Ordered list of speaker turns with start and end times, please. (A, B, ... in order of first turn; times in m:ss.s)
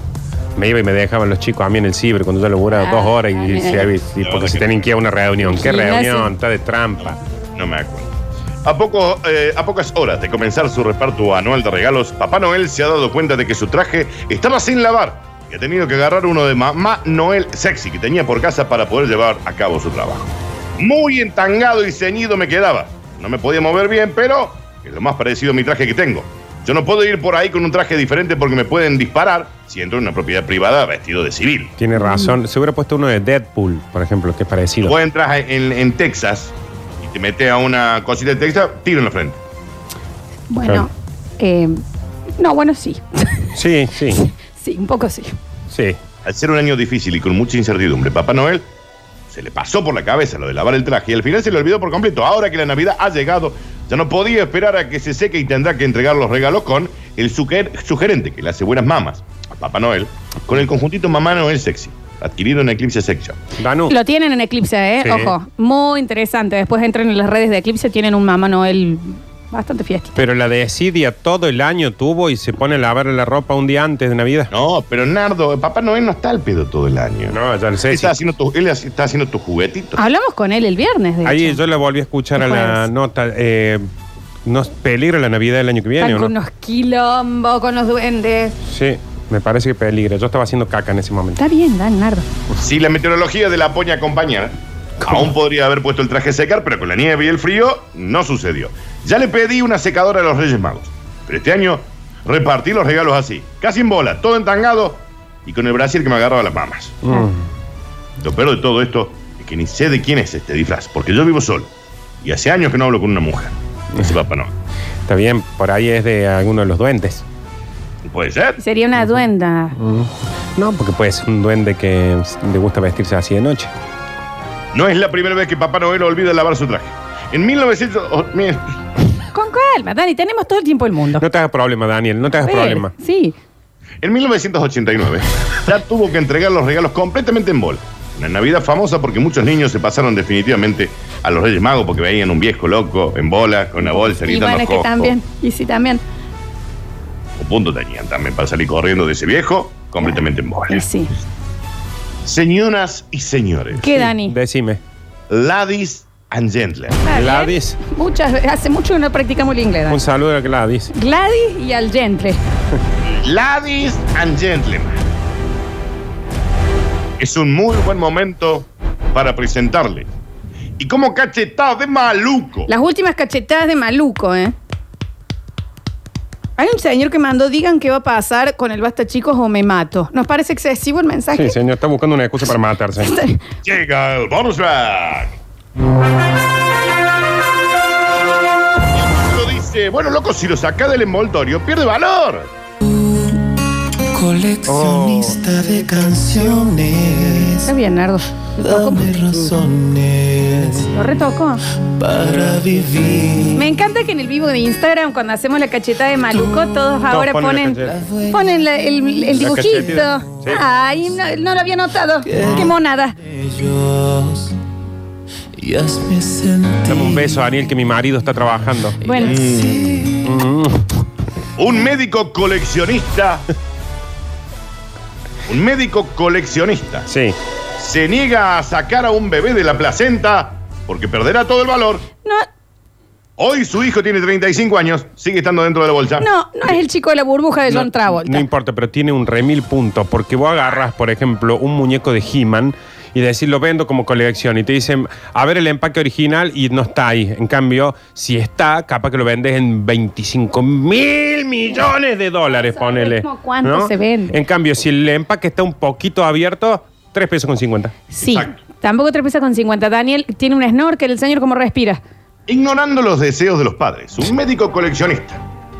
0:00.6-0:07.2 A
0:02.8-0:03.8 B
0:03.8-0:04.8 C
0:05.4-0:06.3 B
0:07.0-0:31.7 C
0:31.8-0:35.0 A
0:32.0-0:32.3 B
0:34.8-0:39.4 C
0:40.5-0:41.8 B
0:42.4-0:43.5 B
0:43.5-0:44.2 A
0:44.2-0:45.3 B
0:45.7-0:46.0 A
0:46.2-0:48.7 C
0:49.3-1:03.4 C
1:03.6-1:03.9 A
1:03.9-1:10.1 B
1:05.0-1:05.3 A
1:10.2-1:14.5 A
1:14.5-1:20.0 C
1:17.3-1:18.1 A
1:20.0-1:21.6 B
1:21.2-1:23.8 A
1:22.4-1:22.8 B
1:24.4-1:26.3 A
1:26.0-1:28.6 B
1:28.6-1:31.4 A
1:31.4-1:32.2 B
1:32.6-1:47.0 C
1:47.0-1:47.4 A
1:48.2-1:51.7 C
1:52.2-1:54.5 C
1:55.1-1:57.2 A
1:58.0-1:58.6 C
1:58.6-1:59.8 B
1:59.8-2:03.7 A
2:04.7-2:08.7 C
2:09.3-2:11.2 B
2:11.2-2:12.9 A
2:12.4-2:13.4 B
2:14.0-2:25.1 C
2:23.8-2:26.0 B
2:27.4-2:30.8 C
2:30.7-2:31.1 B
2:32.2-2:33.9 C
2:33.8-2:34.3 B
2:33.9-2:34.8 A
2:35.3-2:37.0 C
2:37.0-2:40.0 B
2:37.1-2:37.8 A
2:39.9-2:40.9 A
2:40.9-2:42.4 B
2:43.0-2:45.0 C
2:47.2-2:50.1 C
2:50.8-2:52.7 C
2:52.7-2:54.5 B
2:56.6-3:01.6 B
3:01.3-3:03.2 A
3:03.0-3:03.4 B
3:03.6-3:05.4 C
3:08.8-3:12.5 C
3:12.9-3:13.4 D
3:14.1-3:17.7 D
3:14.6-3:15.4 A
3:17.6-3:19.1 B
3:18.6-3:20.9 D
3:20.9-3:21.6 B
3:22.0-3:23.6 D
3:23.5-3:33.2 B
3:27.1-3:28.0 A
3:27.8-3:28.4 D
3:29.3-3:30.6 A
3:32.3-3:34.5 D
3:35.6-3:37.4 D
3:36.9-3:39.0 A
3:39.0-3:39.4 B
3:39.0-3:40.3 D
3:39.2-3:40.1 C
3:40.2-3:40.9 A
3:41.6-3:43.4 C
3:45.5-3:47.1 C
3:47.1-3:47.4 A
3:47.8-3:52.0 C
3:53.4-3:56.3 C
3:56.2-3:58.4 B
3:57.7-4:18.0 A
4:12.6-4:14.4 B
4:18.1-4:22.0 B
4:18.2-4:18.5 C
4:22.5-4:25.4 C